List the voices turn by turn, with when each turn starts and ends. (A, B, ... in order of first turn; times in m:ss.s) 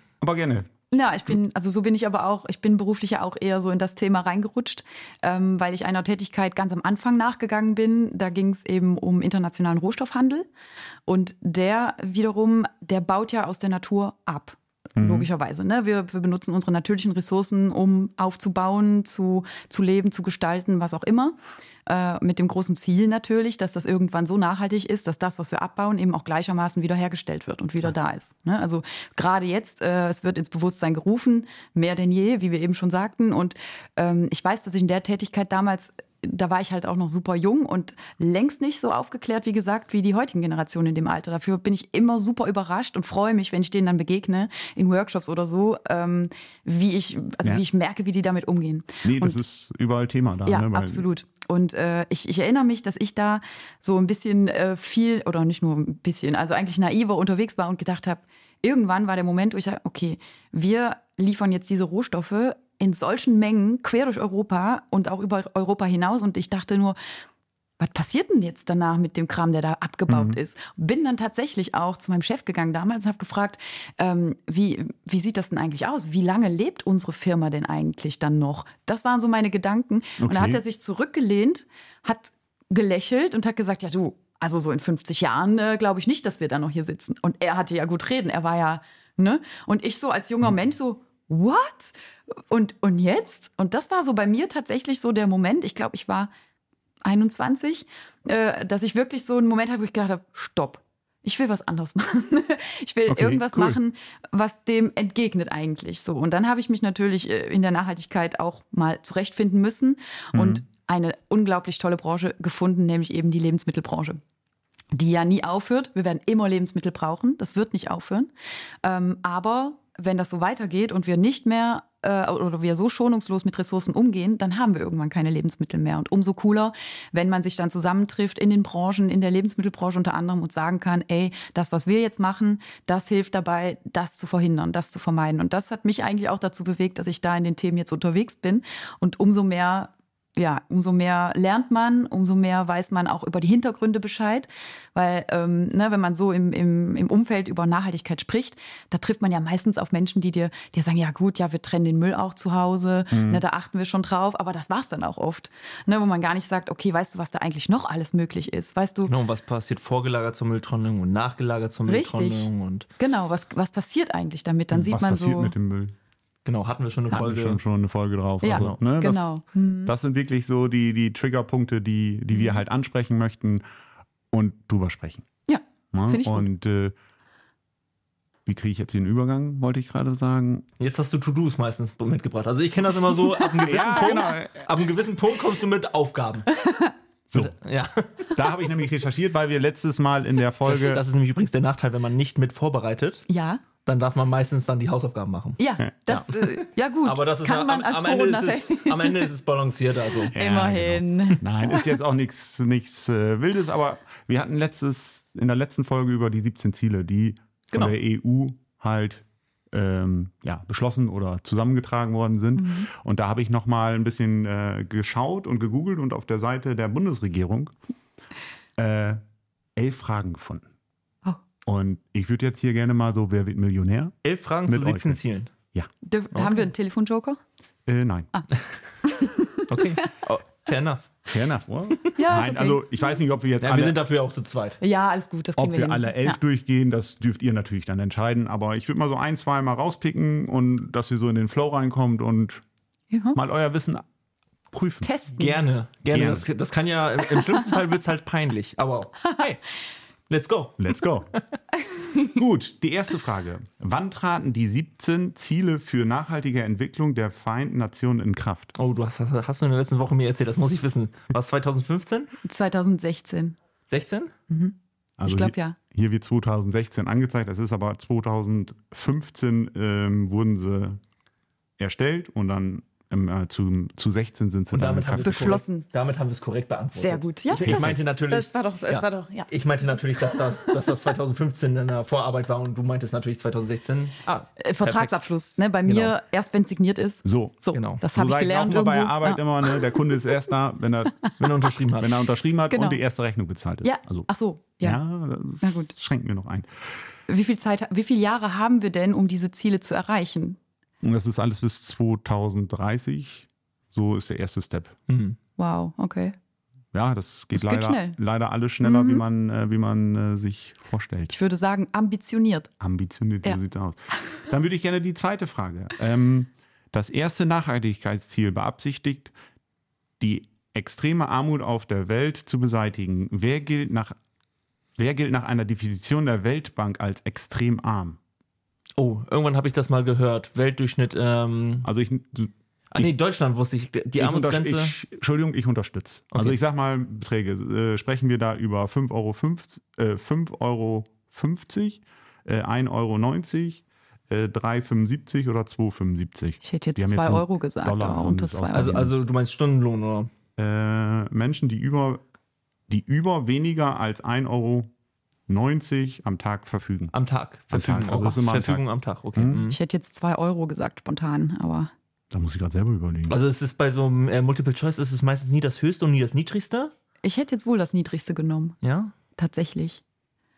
0:00.2-0:00.7 A
0:00.9-0:10.5 B
0:11.1-0:49.4 B
0:15.0-0:15.3 A
0:49.0-0:51.1 A
0:50.4-1:07.0 B
1:07.8-1:36.3 B
1:10.1-1:10.4 A
1:20.2-1:20.6 A
1:37.0-1:54.2 B
1:43.1-1:43.8 A
1:50.3-1:50.6 A
1:54.9-1:58.3 B
1:58.8-2:39.1 B
2:33.1-2:33.4 A
2:39.1-2:42.9 C
2:41.9-2:45.5 B
2:44.7-2:45.9 A
2:46.4-2:47.6 C
2:47.1-2:49.3 A
2:48.4-2:49.9 B
2:49.8-2:53.6 A
2:52.3-2:52.6 B
2:54.3-2:55.2 A
2:55.5-2:56.5 B
2:55.9-2:57.0 A
2:58.4-3:00.6 A
3:00.8-3:06.5 C
3:03.2-3:04.1 B
3:03.6-3:04.7 A
3:06.6-3:06.9 B
3:07.3-3:08.3 C
3:08.3-3:11.0 A
3:10.6-3:13.2 C
3:13.3-3:13.6 B
3:13.8-3:20.3 C
3:15.6-3:19.3 B
3:20.3-3:21.9 B
3:20.3-3:37.7 A
3:32.6-3:32.9 B
3:38.8-3:39.2 A
3:39.8-3:40.6 A
3:41.6-3:44.1 A
3:44.2-3:45.5 C
3:44.6-3:45.2 A
3:46.0-3:47.4 B
3:46.3-3:46.7 C
3:47.8-3:48.3 A
3:49.0-3:50.1 B
3:49.7-3:51.1 C
3:51.3-3:54.0 A
3:52.1-3:52.8 B
3:53.6-3:54.8 C
3:54.8-3:56.4 B
3:55.6-4:02.6 A
4:03.1-4:03.4 B
4:03.3-4:04.0 A
4:04.7-4:05.1 A
4:05.0-4:05.6 B
4:05.4-4:09.7 C
4:06.1-4:06.4 A
4:10.3-4:11.4 C
4:10.8-4:11.3 A
4:12.2-4:18.7 A
4:18.8-4:22.3 C
4:22.4-4:23.6 B
4:23.9-4:24.3 C
4:24.5-4:25.8 B
4:25.2-4:31.0 A
4:31.8-4:35.6 A
4:34.7-4:45.2 C
4:35.2-4:35.8 B
4:37.0-4:39.5 B
4:37.6-4:38.0 A
4:40.2-4:40.9 B
4:44.6-4:50.0 B
4:45.9-4:46.1 C
4:47.2-4:47.6 A
4:47.7-4:48.0 C
4:48.1-4:51.3 A
4:51.4-4:52.2 C
4:52.0-4:54.3 A
4:52.7-4:53.0 B
4:53.8-4:55.0 B
4:54.8-4:57.0 A
4:55.6-4:55.9 B
4:57.3-5:00.6 B
5:01.0-5:04.9 A
5:05.1-5:05.4 C
5:05.6-5:06.3 B
5:06.9-5:11.3 A
5:07.5-5:08.2 B
5:08.8-5:09.2 B
5:11.3-5:12.7 B
5:12.8-5:19.3 A
5:20.2-5:24.2 A
5:25.0-5:28.2 A
5:29.0-5:31.9 C
5:31.8-5:33.1 A
5:32.9-5:34.9 C
5:34.2-5:49.1 A
5:46.6-5:49.1 B
5:48.7-5:50.3 C
5:50.6-5:52.2 A
5:52.9-5:54.9 A
5:55.5-5:57.1 A
5:57.1-5:59.8 C
5:57.7-5:58.8 A
5:59.3-5:59.6 A
5:59.7-6:01.9 B
6:02.3-6:03.4 A
6:03.3-6:06.9 C
6:07.2-6:08.8 B
6:08.8-6:09.1 C
6:09.4-6:10.0 B